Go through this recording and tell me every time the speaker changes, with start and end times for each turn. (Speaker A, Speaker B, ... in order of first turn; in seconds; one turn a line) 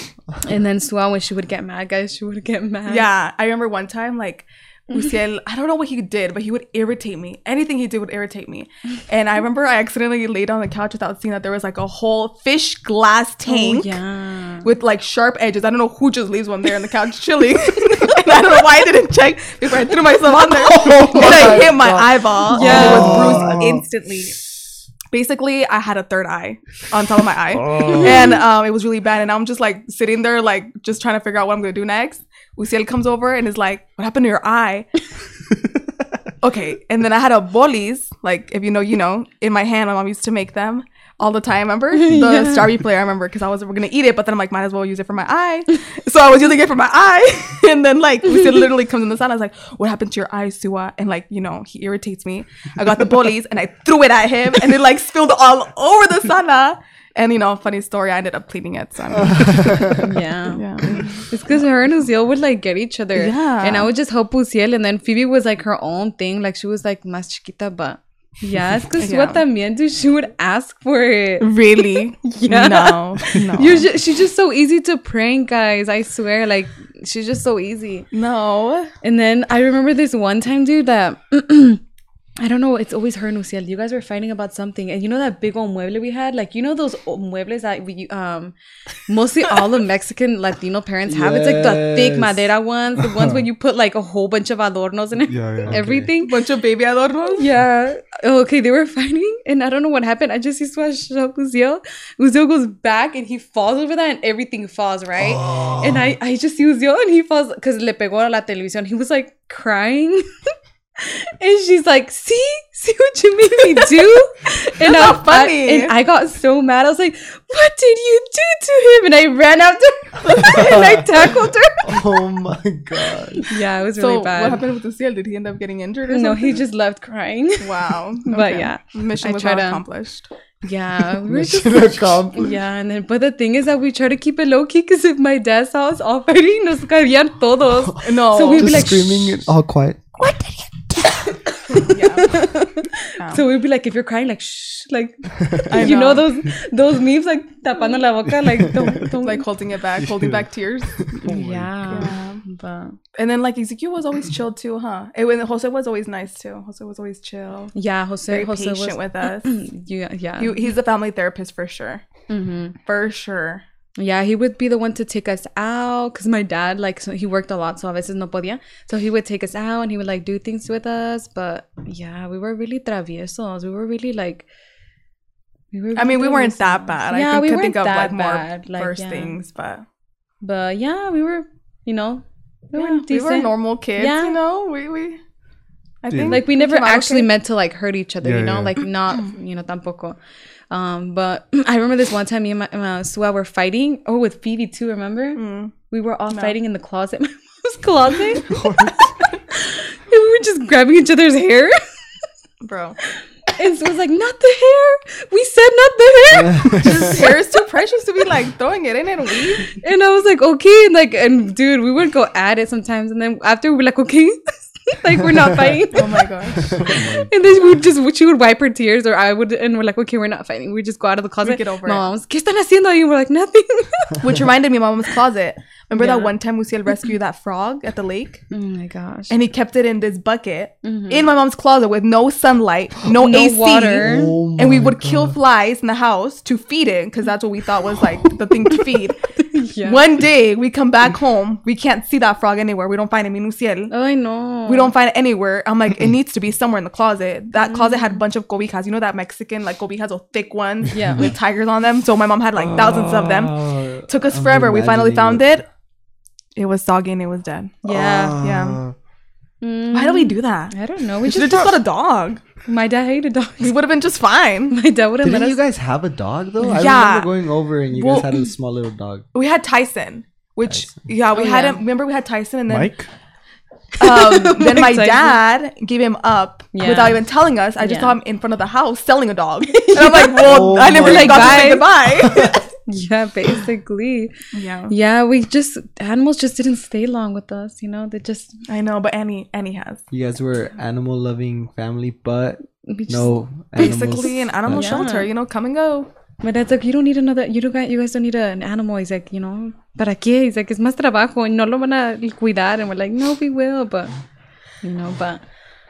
Speaker A: 0.4-3.1
Speaker B: 2.9-13.9
Speaker A: 13.5-14.7
Speaker B: 14.6-24.4
Speaker C: 20.6-23.8
Speaker A: 22.5-23.4
Speaker D: 22.6-23.7
Speaker B: 25.1-34.9
Speaker D: 27.7-28.1
Speaker A: 27.8-28.4
Speaker B: 36.4-61.2
Speaker A: 41.9-42.7
Speaker C: 59.1-60.0
Speaker A: 60.0-78.1
Speaker B: 63.1-63.9
Speaker B: 69.0-69.4
Speaker B: 71.4-73.9
Speaker B: 78.1-78.9
Speaker A: 79.0-81.8
Speaker A: 82.4-88.5
Speaker A: 89.1-96.4
Speaker C: 91.1-92.4
Speaker D: 93.0-93.4
Speaker D: 95.3-96.1
Speaker B: 96.2-97.5
Speaker A: 97.4-110.2
Speaker A: 111.0-122.0
Speaker B: 114.8-115.9
Speaker C: 120.3-121.1
Speaker C: 121.8-123.4
Speaker A: 123.4-124.6
Speaker B: 124.0-126.6
Speaker A: 126.1-127.7
Speaker B: 127.6-130.2
Speaker A: 128.2-129.8
Speaker A: 130.6-139.4
Speaker C: 131.2-132.6
Speaker B: 138.0-138.8
Speaker C: 138.5-140.0
Speaker A: 140.2-149.4
Speaker B: 141.7-142.4
Speaker B: 145.7-146.3
Speaker B: 149.2-151.0
Speaker A: 151.2-153.0
Speaker D: 151.2-151.7
Speaker B: 151.9-152.4
Speaker B: 153.1-157.7
Speaker A: 157.7-160.7
Speaker B: 158.3-159.5
Speaker B: 160.4-162.0
Speaker A: 162.3-162.8
Speaker B: 162.8-163.6
Speaker A: 164.0-174.4
Speaker A: 175.7-179.3
Speaker B: 175.9-179.8
Speaker A: 180.4-184.4
Speaker B: 182.7-185.2
Speaker B: 186.0-187.3
Speaker D: 186.1-186.4
Speaker A: 186.2-190.2
Speaker D: 188.2-188.8
Speaker A: 190.7-198.9
Speaker B: 195.3-195.7
Speaker B: 196.3-196.5
Speaker D: 198.5-199.0
Speaker A: 199.5-201.8
Speaker B: 202.6-203.0
Speaker A: 203.5-207.4
Speaker C: 206.3-207.2
Speaker B: 206.8-209.8
Speaker A: 209.7-216.2
Speaker C: 215.5-215.8
Speaker B: 215.9-216.8
Speaker C: 216.6-217.3
Speaker D: 216.8-217.3
Speaker A: 216.9-224.2
Speaker B: 221.4-222.0
Speaker B: 224.2-228.4
Speaker A: 225.9-226.3
Speaker A: 228.5-229.3
Speaker B: 229.3-239.2
Speaker A: 230.8-231.3
Speaker A: 233.1-234.4
Speaker C: 234.0-235.3
Speaker A: 239.4-240.0
Speaker B: 239.8-243.9
Speaker A: 243.9-244.9
Speaker B: 244.7-255.6
Speaker A: 247.6-248.2
Speaker A: 250.9-251.3
Speaker C: 252.6-255.6
Speaker B: 256.6-258.8
Speaker A: 257.8-258.4
Speaker C: 257.9-258.9
Speaker A: 259.6-261.7
Speaker B: 259.9-260.7
Speaker B: 261.2-262.4
Speaker A: 262.6-263.7
Speaker B: 263.6-264.7
Speaker A: 264.7-265.6
Speaker C: 265.2-269.2
Speaker B: 266.6-267.3
Speaker B: 267.9-268.4
Speaker B: 269.3-272.9
Speaker A: 271.3-271.8
Speaker D: 272.7-273.1
Speaker A: 274.0-275.4
Speaker B: 274.0-282.6
Speaker A: 276.7-277.2
Speaker A: 277.8-278.1
Speaker A: 279.7-281.9
Speaker C: 280.4-282.6
Speaker A: 282.9-284.3
Speaker B: 284.5-284.9
Speaker A: 284.9-288.5
Speaker B: 288.7-290.0
Speaker C: 290.1-295.0
Speaker A: 292.8-295.3
Speaker B: 293.8-296.1
Speaker A: 296.4-304.1
Speaker A: 304.8-305.4